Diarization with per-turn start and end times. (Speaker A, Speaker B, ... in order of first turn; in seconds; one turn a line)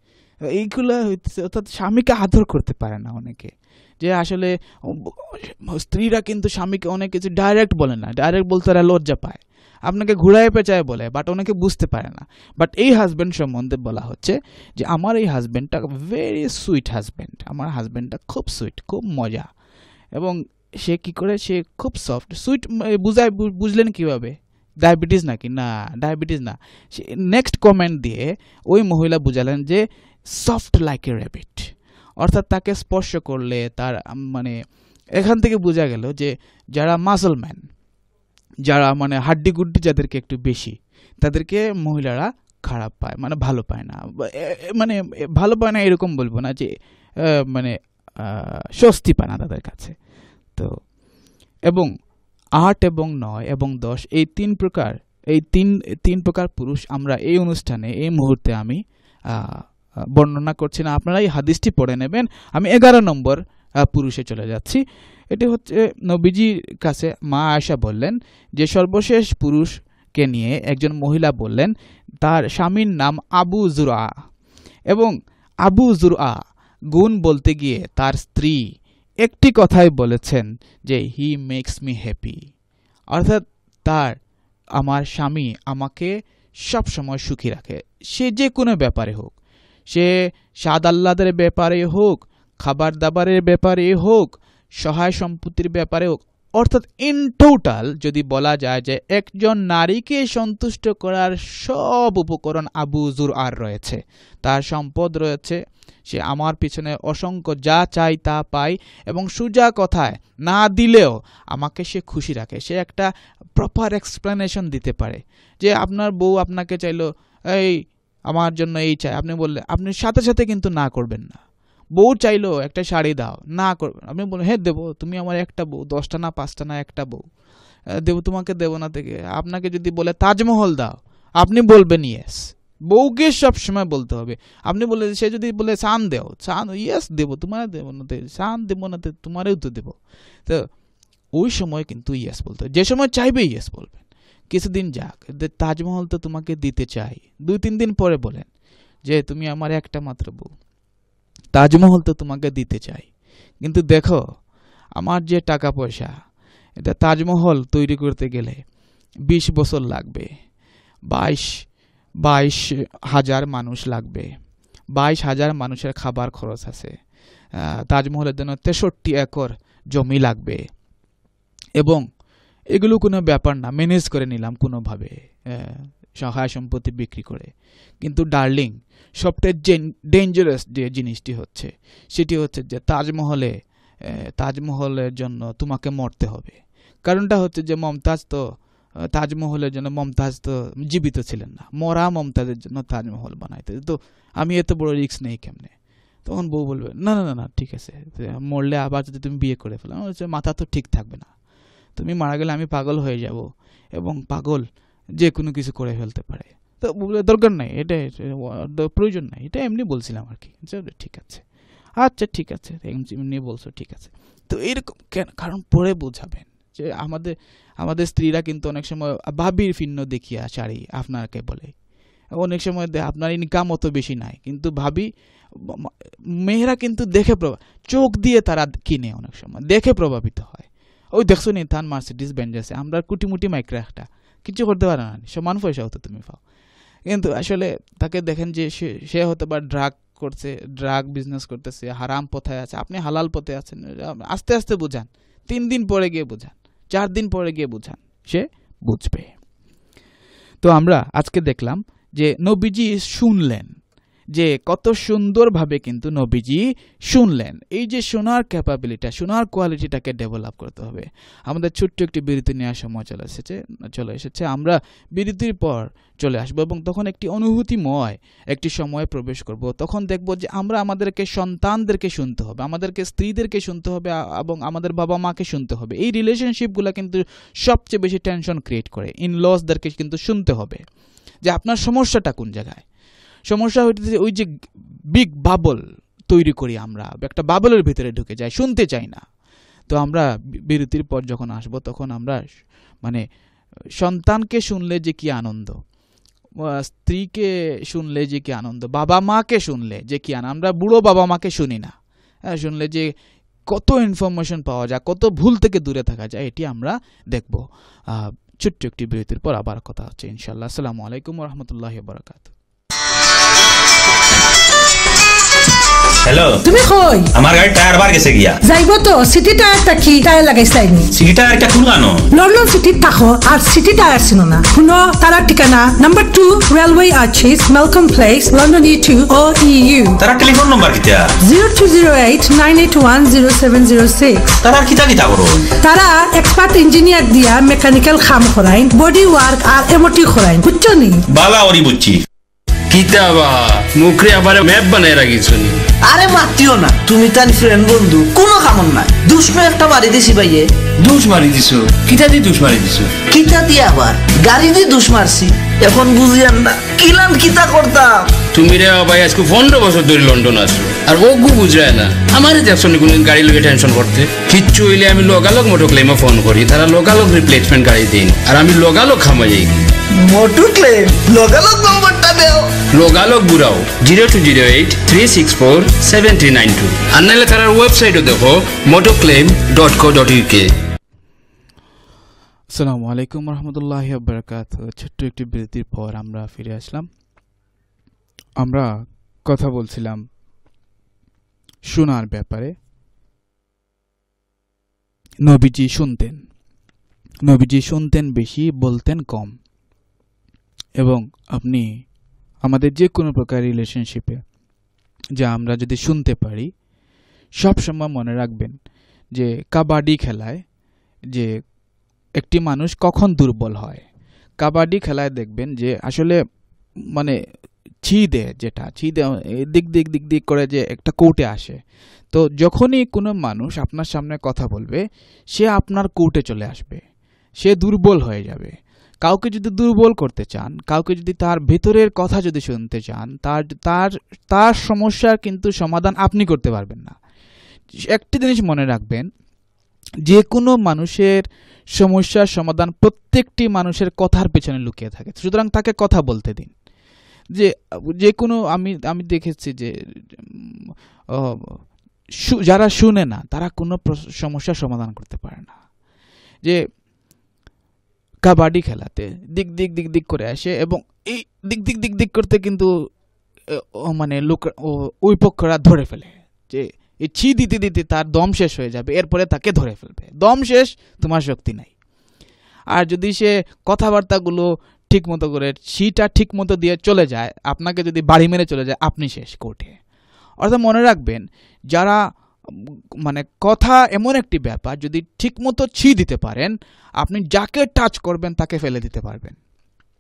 Speaker A: 0.5-19.5
Speaker A: 20.2-31.7
Speaker A: 32.2-34.6
Speaker A: 35.2-37.6
Speaker A: 38.7-46.7
Speaker A: 47.5-50.0
Speaker A: 52.6-58.8
Speaker A: 59.3-59.6
Speaker A: 60.2-64.8
Speaker A: 65.3-74.1
Speaker A: 75.7-76.4
Speaker A: 76.9-78.6
Speaker A: 79.2-82.4
Speaker A: 83.1-84.2
Speaker A: 84.8-86.1
Speaker A: 86.7-89.3
Speaker A: 90.6-121.4
Speaker A: 122.0-127.2
Speaker A: 128.0-140.7
Speaker A: 141.4-148.5
Speaker A: 149.1-150.5
Speaker A: 151.5-153.1
Speaker A: 153.6-154.2
Speaker A: 155.0-156.1
Speaker A: 156.8-158.6
Speaker A: 159.3-160.3
Speaker A: 161.1-161.5
Speaker A: 162.2-164.3
Speaker A: 165.0-166.9
Speaker A: 167.9-170.6
Speaker A: 171.8-172.0
Speaker A: 172.8-177.5
Speaker A: 178.0-183.5
Speaker A: 184.1-188.4
Speaker A: 189.2-195.7
Speaker A: 196.2-201.3
Speaker A: 202.0-204.7
Speaker A: 205.2-211.4
Speaker A: 212.0-221.7
Speaker A: 222.4-225.1
Speaker A: 226.4-236.4
Speaker A: 237.1-249.3
Speaker A: 250.6-253.7
Speaker A: 254.3-280.8
Speaker A: 281.5-282.8
Speaker A: 283.5-284.5
Speaker A: 285.1-289.2
Speaker A: 289.9-292.4
Speaker A: 294.0-295.8
Speaker A: 296.8-301.9
Speaker A: 302.5-303.1
Speaker A: 303.7-312.5
Speaker B: 316.2-316.6
Speaker C: 316.6-317.3
Speaker B: 317.3-318.6
Speaker C: 318.6-321.1
Speaker B: 321.1-322.3
Speaker C: 322.3-330.2
Speaker B: 330.2-331.3
Speaker C: 331.4-334.5
Speaker B: 334.6-335.7
Speaker C: 335.8-341.2
Speaker B: 341.3-342.2
Speaker D: 342.9-345.9
Speaker E: 346.0-351.0
Speaker D: 351.1-351.9
Speaker E: 352.0-352.6
Speaker E: 353.2-358.4
Speaker D: 358.5-369.9
Speaker E: 370.1-372.8
Speaker D: 372.9-380.7
Speaker A: 382.7-387.1
Speaker A: 388.6-388.9
Speaker A: 389.5-390.2
Speaker A: 391.9-392.7
Speaker A: 395.4-396.4
Speaker A: 397.4-399.6
Speaker A: 401.0-401.9
Speaker A: 402.6-404.4
Speaker A: 405.4-406.7
Speaker A: 407.6-408.8
Speaker A: 409.4-410.6
Speaker A: 412.4-414.0
Speaker A: 414.6-416.4
Speaker A: 418.1-421.8
Speaker A: 422.3-425.0
Speaker A: 425.5-427.0
Speaker A: 427.6-437.2
Speaker A: 438.1-439.3
Speaker A: 440.3-441.4
Speaker A: 442.0-446.7
Speaker A: 447.6-450.8
Speaker A: 451.5-451.8
Speaker A: 452.4-455.8
Speaker A: 458.5-462.9
Speaker A: 463.7-471.9
Speaker A: 472.9-480.0
Speaker A: 480.6-482.2
Speaker A: 482.7-489.6